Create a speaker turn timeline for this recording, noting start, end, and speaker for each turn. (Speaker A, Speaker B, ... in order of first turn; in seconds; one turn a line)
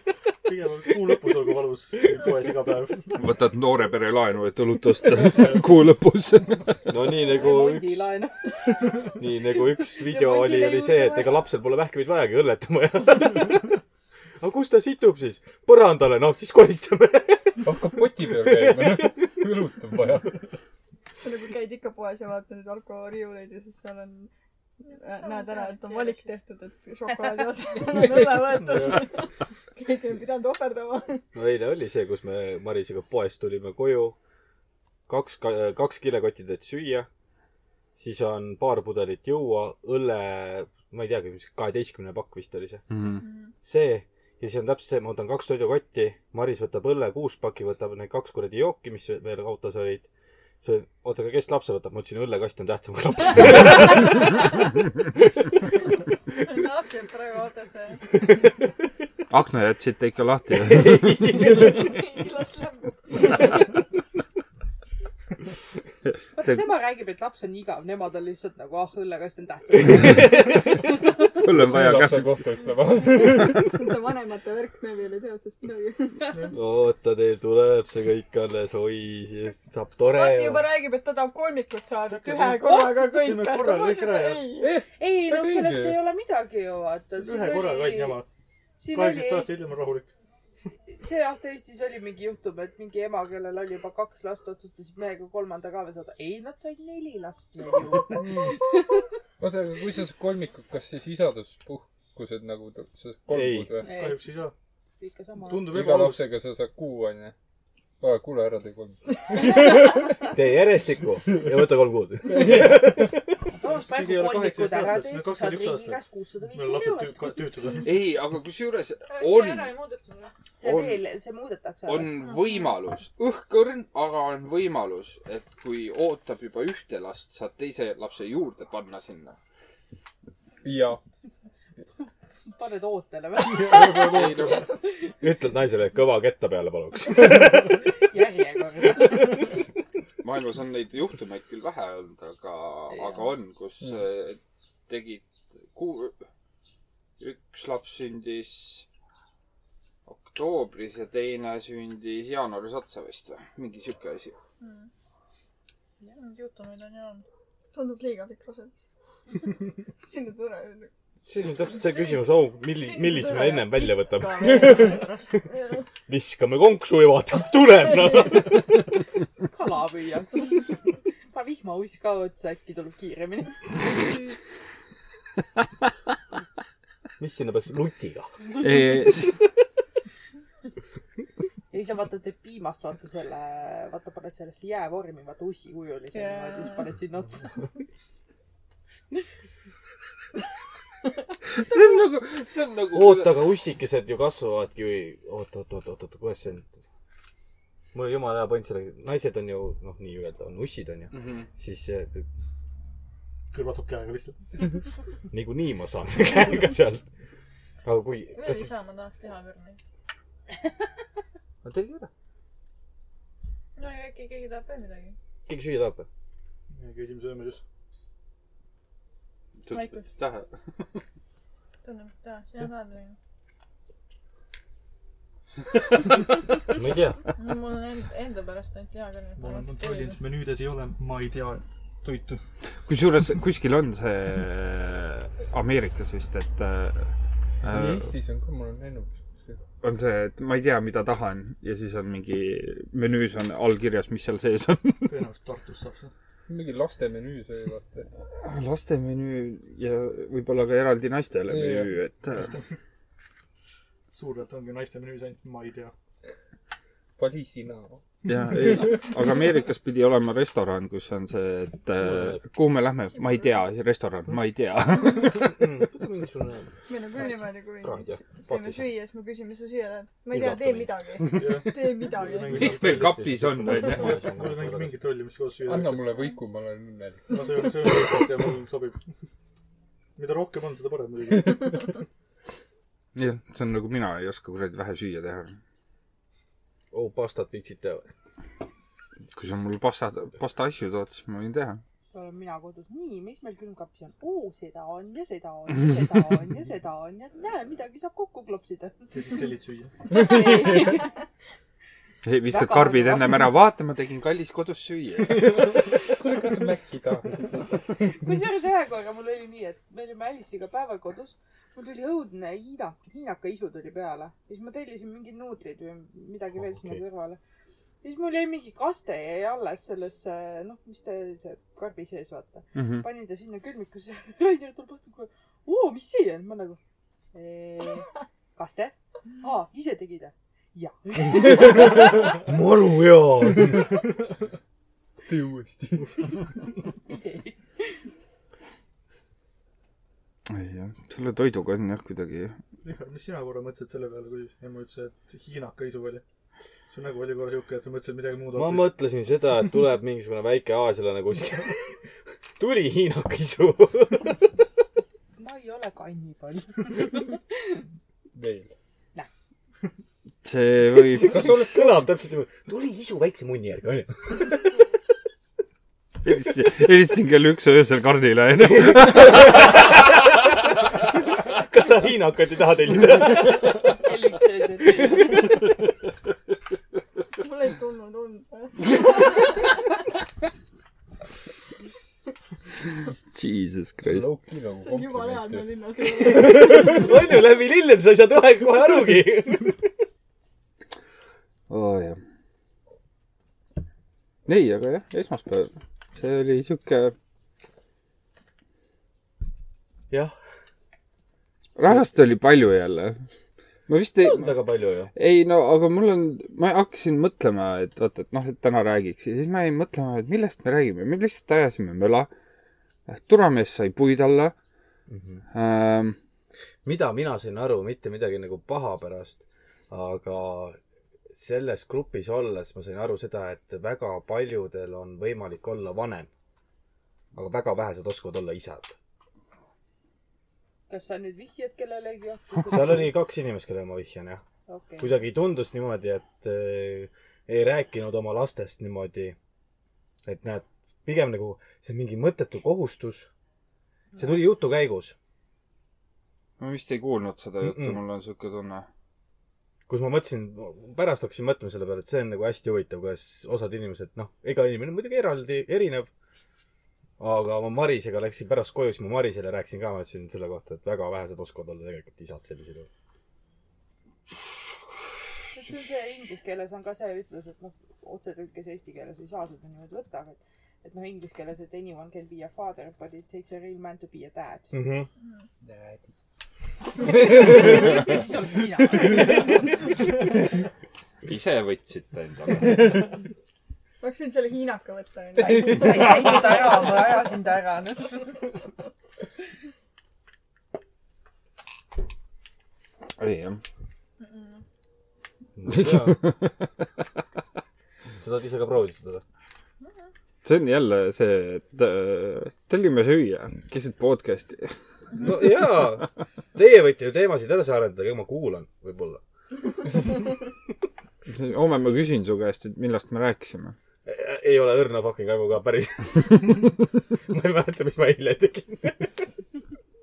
Speaker A: 0.5-3.1
Speaker B: 3.1-6.9
Speaker C: 6.9-8.1
Speaker D: 7.2-8.4
Speaker C: 9.2-13.8
Speaker D: 10.0-11.4
Speaker C: 14.4-17.7
Speaker E: 17.6-20.4
Speaker C: 18.5-19.1
Speaker F: 21.2-24.3
Speaker F: 24.9-31.2
Speaker G: 25.2-26.3
Speaker C: 31.3-34.2
Speaker C: 35.1-37.1
Speaker C: 37.9-42.8
Speaker B: 42.9-43.2
Speaker G: 43.2-43.5
Speaker C: 43.6-50.1
Speaker C: 50.6-54.6
Speaker G: 56.4-58.0
Speaker B: 59.3-61.3
Speaker C: 60.6-62.0
Speaker F: 61.6-63.3
Speaker D: 66.4-70.5
Speaker C: 70.0-70.5
Speaker B: 71.4-72.4
Speaker E: 71.4-73.8
Speaker F: 73.6-76.5
Speaker C: 76.5-80.7
Speaker F: 80.1-84.7
Speaker A: 82.1-84.5
Speaker D: 82.6-83.2
Speaker E: 84.6-86.0
Speaker D: 84.9-88.2
Speaker A: 87.2-88.3
Speaker D: 88.8-89.5
Speaker A: 88.9-90.1
Speaker D: 90.9-98.8
Speaker E: 99.4-103.9
Speaker C: 103.3-103.7
Speaker A: 103.8-104.5
Speaker D: 103.8-104.2
Speaker D: 105.0-105.8
Speaker A: 105.4-106.3
Speaker E: 105.7-107.3
Speaker E: 108.0-110.1
Speaker C: 110.3-113.3
Speaker E: 112.3-113.1
Speaker D: 113.5-117.5
Speaker A: 113.6-118.0
Speaker B: 117.8-119.8
Speaker G: 119.1-120.3
Speaker D: 120.6-122.2
Speaker B: 120.6-121.0
Speaker B: 121.9-129.4
Speaker E: 130.6-131.0
Speaker D: 132.5-134.2
Speaker E: 133.4-134.6
Speaker B: 134.1-134.7
Speaker C: 135.2-137.9
Speaker D: 138.1-139.3
Speaker B: 140.2-146.2
Speaker D: 142.9-143.3
Speaker B: 147.2-148.9
Speaker B: 150.1-154.4
Speaker G: 154.6-154.9
Speaker G: 156.2-157.2
Speaker F: 157.7-158.7
Speaker F: 160.0-160.9
Speaker C: 161.2-165.0
Speaker G: 161.8-162.2
Speaker G: 162.8-165.4
Speaker C: 166.1-168.9
Speaker D: 169.5-173.6
Speaker C: 177.2-178.3
Speaker B: 178.6-179.4
Speaker D: 181.7-187.5
Speaker B: 191.5-193.5
Speaker C: 192.9-196.7
Speaker C: 197.9-202.3
Speaker B: 201.1-201.5
Speaker A: 203.5-204.4
Speaker C: 205.3-207.0
Speaker C: 207.8-208.7
Speaker G: 208.4-209.8
Speaker C: 211.6-212.1
Speaker G: 213.8-215.2
Speaker C: 215.5-216.1
Speaker A: 216.7-217.6
Speaker B: 219.6-220.5
Speaker G: 219.7-220.1
Speaker G: 221.8-223.2
Speaker C: 226.7-227.2
Speaker G: 227.3-230.2
Speaker A: 229.4-232.4
Speaker B: 232.8-238.1
Speaker E: 237.7-239.6
Speaker B: 239.8-245.2
Speaker A: 245.1-246.1
Speaker E: 246.5-248.1
Speaker B: 248.4-252.6
Speaker E: 251.5-251.9
Speaker A: 252.3-252.6
Speaker A: 254.1-255.9
Speaker E: 257.2-258.0
Speaker B: 258.3-265.7
Speaker C: 262.1-262.4
Speaker C: 265.3-267.2
Speaker F: 266.9-272.7
Speaker C: 267.8-268.9
Speaker C: 270.3-271.2
Speaker A: 271.3-273.2
Speaker B: 272.5-274.2
Speaker C: 272.5-275.0
Speaker A: 274.0-276.2
Speaker E: 275.6-277.6
Speaker A: 277.3-279.0
Speaker A: 280.2-281.9
Speaker B: 283.1-285.6
Speaker C: 286.9-288.1
Speaker B: 289.3-291.8
Speaker D: 292.1-299.0
Speaker A: 299.1-299.9
Speaker D: 300.1-301.1
Speaker E: 300.2-300.9
Speaker B: 302.2-305.7
Speaker D: 302.5-303.5
Speaker E: 306.1-307.8
Speaker D: 308.1-317.4
Speaker C: 316.6-317.0
Speaker D: 318.0-326.8
Speaker B: 322.8-323.1
Speaker D: 327.3-332.1
Speaker C: 332.4-334.0
Speaker E: 335.3-336.2
Speaker D: 337.1-338.0
Speaker B: 340.5-342.6
Speaker A: 342.8-346.2
Speaker A: 346.9-348.9
Speaker C: 348.5-351.8
Speaker C: 352.6-354.5
Speaker D: 355.4-357.4
Speaker E: 358.3-358.7
Speaker B: 360.4-361.5
Speaker C: 361.0-364.7
Speaker E: 361.2-362.0
Speaker B: 366.2-369.7
Speaker C: 368.7-370.6
Speaker C: 371.4-374.0
Speaker D: 374.0-375.5
Speaker F: 377.4-379.7
Speaker B: 383.3-384.3
Speaker E: 384.1-387.0
Speaker F: 384.8-387.1
Speaker C: 386.4-389.9
Speaker B: 391.7-392.2
Speaker B: 394.5-397.1
Speaker C: 400.1-400.4
Speaker B: 401.8-403.2
Speaker B: 403.9-404.6
Speaker C: 404.2-405.1
Speaker B: 405.1-412.3
Speaker B: 413.1-414.6
Speaker C: 415.1-415.4
Speaker B: 415.5-416.2
Speaker C: 416.9-420.8
Speaker C: 421.3-426.3
Speaker C: 427.4-429.0
Speaker D: 430.9-433.1
Speaker C: 432.6-434.4
Speaker D: 434.7-435.1
Speaker C: 435.0-439.4
Speaker C: 440.2-443.3
Speaker C: 444.2-445.1
Speaker B: 446.6-448.9
Speaker C: 447.6-448.0
Speaker C: 449.9-456.1
Speaker C: 457.2-462.9
Speaker D: 465.5-474.7
Speaker C: 474.7-475.1
Speaker E: 475.6-476.1
Speaker D: 477.0-479.9
Speaker B: 481.3-483.1
Speaker F: 484.0-486.5
Speaker D: 485.4-488.3
Speaker B: 493.1-493.6
Speaker G: 494.2-494.6
Speaker C: 495.6-496.2
Speaker B: 495.7-496.6
Speaker C: 498.2-499.2
Speaker B: 500.4-505.3
Speaker C: 505.2-509.2
Speaker B: 511.3-513.8
Speaker C: 514.1-519.3